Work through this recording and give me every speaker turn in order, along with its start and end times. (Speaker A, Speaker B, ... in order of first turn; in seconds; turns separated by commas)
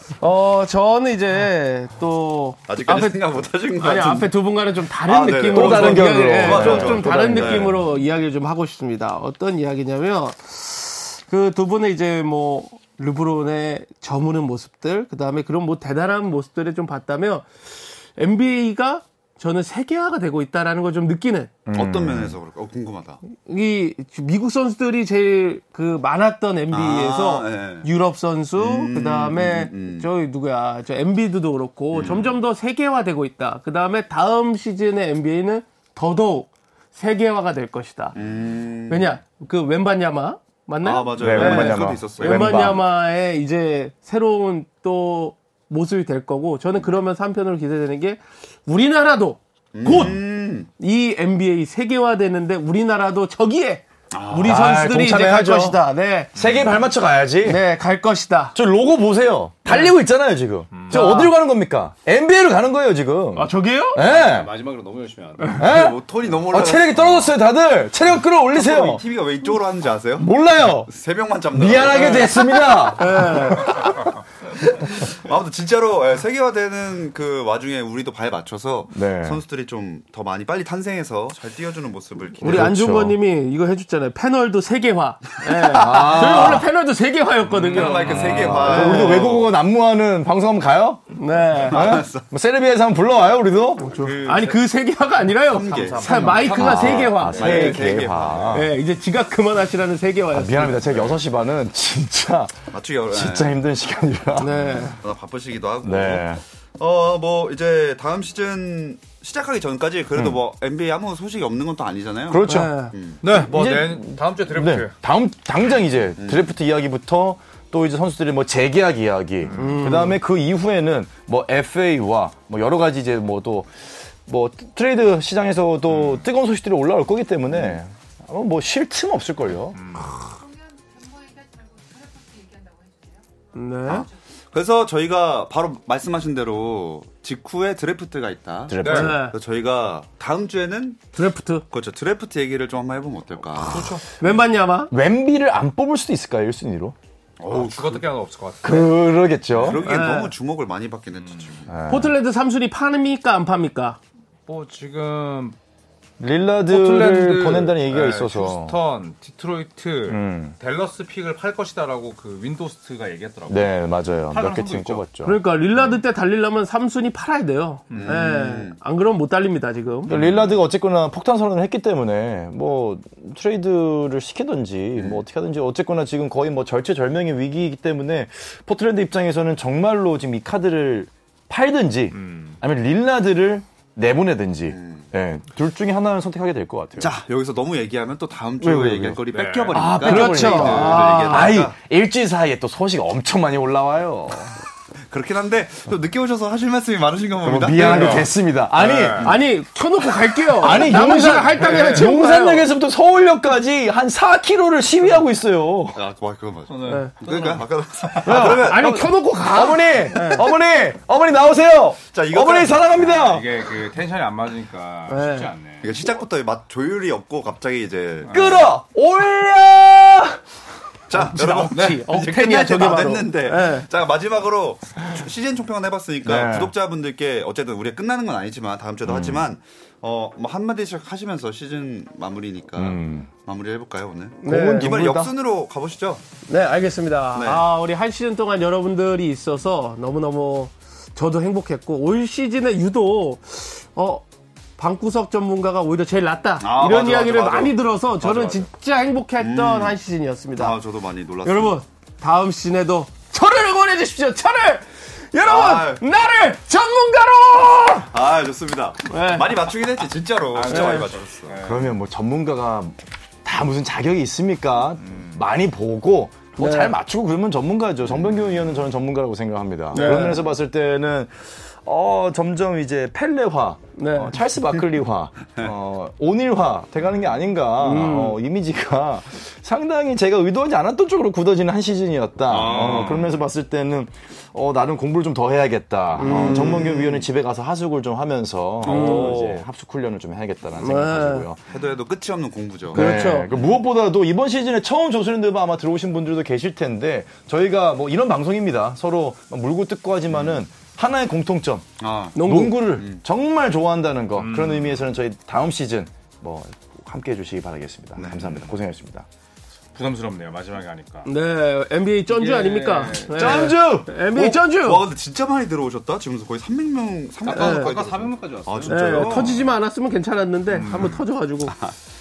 Speaker A: 0.2-21.5, Speaker B: 2.7-4.3, Speaker B: 5.1-7.7, Speaker C: 5.3-7.9, Speaker C: 21.6-22.3, Speaker B: 21.7-23.2, Speaker A: 23.3-38.1, Speaker B: 26.7-27.9, Speaker B: 28.6-30.1, Speaker B: 31.9-32.3, Speaker B: 38.1-39.2, Speaker A: 38.9-56.3, Speaker B: 40.8-42.8, Speaker C: 41.2-42.8, Speaker B: 49.7-50.7, Speaker B: 54.1-54.6, Speaker C: 54.4-55.8, Speaker C: 56.3-57.6, Speaker D: 56.4-56.7, Speaker A: 57.4-58.5, Speaker C: 58.5-64.5, Speaker A: 59.7-59.9, Speaker D: 60.7-61.1, Speaker A: 60.9-61.4, Speaker A: 63.3-64.0, Speaker D: 64.0-65.6, Speaker C: 65.5-69.0, Speaker B: 65.6-67.3, Speaker B: 68.5-70.3, Speaker C: 70.2-70.9, Speaker B: 70.9-72.7, Speaker C: 71.5-73.9, Speaker A: 72.0-72.3, Speaker A: 72.9-73.8, Speaker B: 73.6-73.9, Speaker B: 74.6-82.7, Speaker C: 78.9-79.4, Speaker A: 82.4-89.3, Speaker C: 82.4-83.2, Speaker C: 85.6-86.7, Speaker B: 87.5-89.5, Speaker D: 87.6-88.7, Speaker C: 88.1-91.1, Speaker A: 91.2-91.9, Speaker B: 91.6-92.2, Speaker C: 91.7-93.8, Speaker A: 93.8-97.9, Speaker B: 93.8-94.6, Speaker D: 94.0-94.4, Speaker B: 95.3-96.4, Speaker D: 95.5-97.7, Speaker C: 96.3-98.7, Speaker B: 97.3-98.7, Speaker A: 98.5-101.0, Speaker C: 100.3-102.5, Speaker B: 102.7-103.6, Speaker C: 103.0-105.0, Speaker A: 104.4-105.0, Speaker B: 105.0-113.2, Speaker C: 105.8-106.4, Speaker C: 112.3-129.8, Speaker A: 112.4-112.9, Speaker D: 113.2-114.9, Speaker B: 116.2-116.5, Speaker A: 119.5-120.2, Speaker B: 127.5-127.8, Speaker D: 129.8-130.2, Speaker E: 129.9-134.1, Speaker A: 133.5-134.1, Speaker B: 133.9-141.0, Speaker C: 138.7-139.3, Speaker D: 138.8-139.2, Speaker A: 138.8-139.3, Speaker A: 141.1-141.6, Speaker B: 141.7-143.9, Speaker D: 143.6-144.1, Speaker A: 144.2-144.9, Speaker C: 144.9-146.9, Speaker B: 147.4-148.0, Speaker D: 147.5-148.9, Speaker C: 148.6-149.8, Speaker B: 149.5-151.7, Speaker A: 149.7-150.3, Speaker D: 151.3-151.6, Speaker C: 151.7-152.1, Speaker A: 151.9-154.0, Speaker D: 154.5-155.6, Speaker C: 156.2-158.8, Speaker D: 156.7-165.1, Speaker C: 160.1-160.6, Speaker C: 163.5-165.4, Speaker A: 165.2-170.1, Speaker D: 167.9-168.2, Speaker B: 167.9-168.8, Speaker D: 170.1-170.5, Speaker C: 170.1-187.1, Speaker B: 174.9-175.2, Speaker D: 182.1-182.6, Speaker B: 184.7-185.1, Speaker B: 187.0-191.8, Speaker C: 188.6-194.6, Speaker D: 189.3-190.3, Speaker A: 189.7-191.6, Speaker B: 195.1-198.3, Speaker C: 197.4-199.4, Speaker D: 197.7-199.3, Speaker A: 199.2-202.7, Speaker C: 200.5-206.0, Speaker D: 200.7-202.1, Speaker B: 205.9-209.0, Speaker D: 206.7-208.2, Speaker A: 206.9-207.1, Speaker A: 208.2-210.4, Speaker C: 208.2-213.5, Speaker B: 212.1-213.0, Speaker D: 213.0-215.9, Speaker A: 215.1-215.5, Speaker B: 215.8-218.6, Speaker D: 218.2-218.7, Speaker C: 218.3-220.4, Speaker B: 221.1-236.2, Speaker A: 221.1-223.9, Speaker D: 221.7-222.0, Speaker C: 226.2-226.7, Speaker C: 229.1-229.5, Speaker C: 232.8-233.3, Speaker A: 234.4-234.9, Speaker C: 234.4-235.3, Speaker A: 236.5-244.2, Speaker B: 237.3-237.7, Speaker A: 244.8-250.8, Speaker B: 246.6-248.6, Speaker D: 248.2-248.5, Speaker B: 249.4-250.0, Speaker B: 250.6-251.8, Speaker A: 251.4-258.1, Speaker B: 255.4-256.0, Speaker B: 258.1-261.5, Speaker A: 259.1-259.6, Speaker D: 260.5-262.0, Speaker A: 260.6-261.1, Speaker C: 261.6-291.6, Speaker D: 265.0-265.4, Speaker A: 266.6-266.9, Speaker B: 268.1-268.5, Speaker A: 269.9-270.4, Speaker B: 270.0-270.2, Speaker D: 270.0-270.3, Speaker A: 273.9-274.4, Speaker A: 277.8-278.4, Speaker B: 282.5-283.3, Speaker D: 282.5-283.3, Speaker A: 286.2-287.0, Speaker B: 286.2-287.3, Speaker A: 288.8-289.4, Speaker B: 288.8-289.6, Speaker A: 290.8-291.5, Speaker B: 291.7-293.8, Speaker C: 292.9-301.9, Speaker A: 292.9-293.5, Speaker B: 300.3-300.6, Speaker B: 302.0-303.2, Speaker A: 302.4-302.9, Speaker C: 302.4-309.2, Speaker D: 304.4-305.1, Speaker B: 308.1-308.7, Speaker D: 309.9-311.3, Speaker A: 311.2-315.1, Speaker D: 312.3-313.7, Speaker C: 313.3-314.6, Speaker B: 314.7-319.6, Speaker D: 317.4-319.7, Speaker A: 317.5-317.9, Speaker A: 318.9-321.8, Speaker D: 320.7-321.2